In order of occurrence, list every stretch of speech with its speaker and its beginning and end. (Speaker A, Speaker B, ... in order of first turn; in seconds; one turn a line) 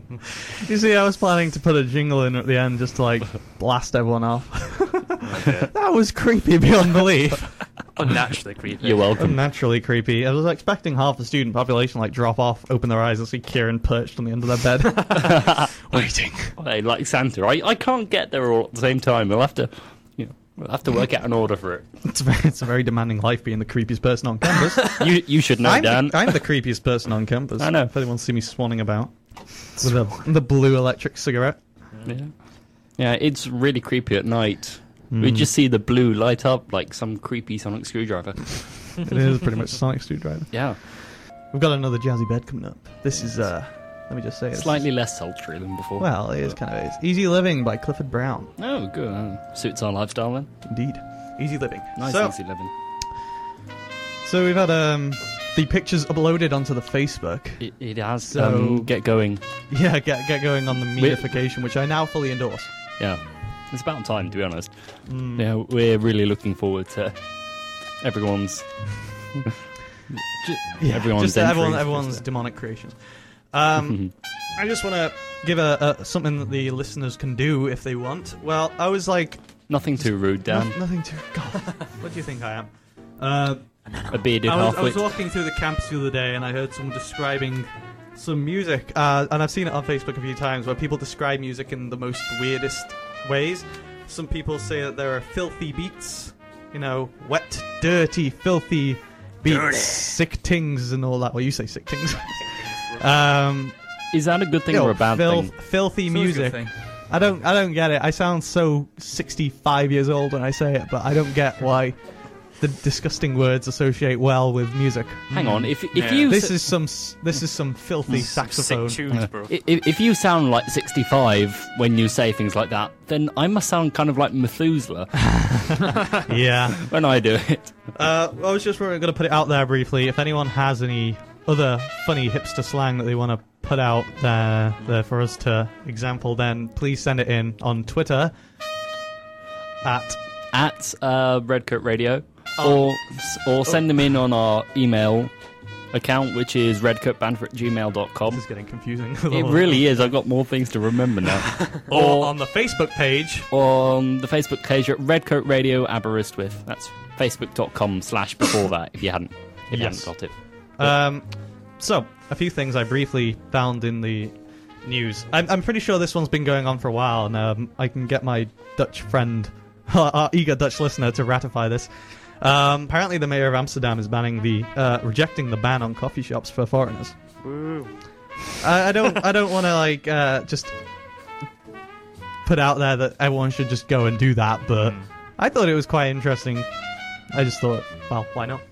Speaker A: 0.5-7.5
Speaker B: 5.2-5.7
Speaker B: 8.0-9.2
Speaker C: 8.8-9.4
Speaker A: 9.2-16.6
Speaker C: 15.1-15.7
Speaker C: 16.6-21.9
Speaker A: 22.0-25.1
Speaker C: 24.9-26.3
Speaker A: 25.6-31.6
Speaker C: 27.6-27.9
Speaker C: 32.0-32.4
Speaker C: 32.9-38.7
Speaker A: 35.1-35.5
Speaker A: 39.0-44.8
Speaker C: 40.5-40.8
Speaker C: 44.5-46.1
Speaker A: 46.0-48.5
Speaker C: 48.6-50.5
Speaker A: 50.7-52.4
Speaker C: 52.0-52.7
Speaker A: 54.2-57.6
Speaker C: 57.6-59.4
Speaker A: 58.3-58.9
Speaker A: 59.7-62.7
Speaker C: 61.0-61.2
Speaker C: 63.0-64.7
Speaker A: 65.1-65.5
Speaker C: 65.3-67.2
Speaker C: 68.0-69.5
Speaker C: 70.4-72.2
Speaker A: 70.8-73.0
Speaker A: 73.5-79.4
Speaker C: 79.7-80.8
Speaker A: 80.0-83.7
Speaker C: 84.1-85.1
Speaker A: 84.4-103.8
Speaker B: 99.5-100.1
Speaker C: 104.1-105.5
Speaker A: 104.7-112.0
Speaker B: 106.1-106.7
Speaker A: 112.6-115.7
Speaker C: 115.3-116.6
Speaker B: 115.9-116.3
Speaker A: 116.2-119.0
Speaker B: 118.1-119.5
Speaker C: 119.1-125.3
Speaker A: 125.3-126.9
Speaker C: 126.8-127.8
Speaker A: 128.0-138.3
Speaker A: 139.8-140.2
Speaker C: 140.5-145.3
Speaker A: 142.6-142.8
Speaker C: 145.9-148.4
Speaker A: 148.3-149.8
Speaker C: 149.3-152.3
Speaker A: 151.9-153.5
Speaker C: 153.5-160.9
Speaker A: 159.7-161.3
Speaker A: 161.8-171.9
Speaker A: 172.4-177.2
Speaker B: 177.4-177.9
Speaker A: 178.6-180.8
Speaker A: 182.4-186.7
Speaker B: 184.8-185.1
Speaker A: 187.3-188.6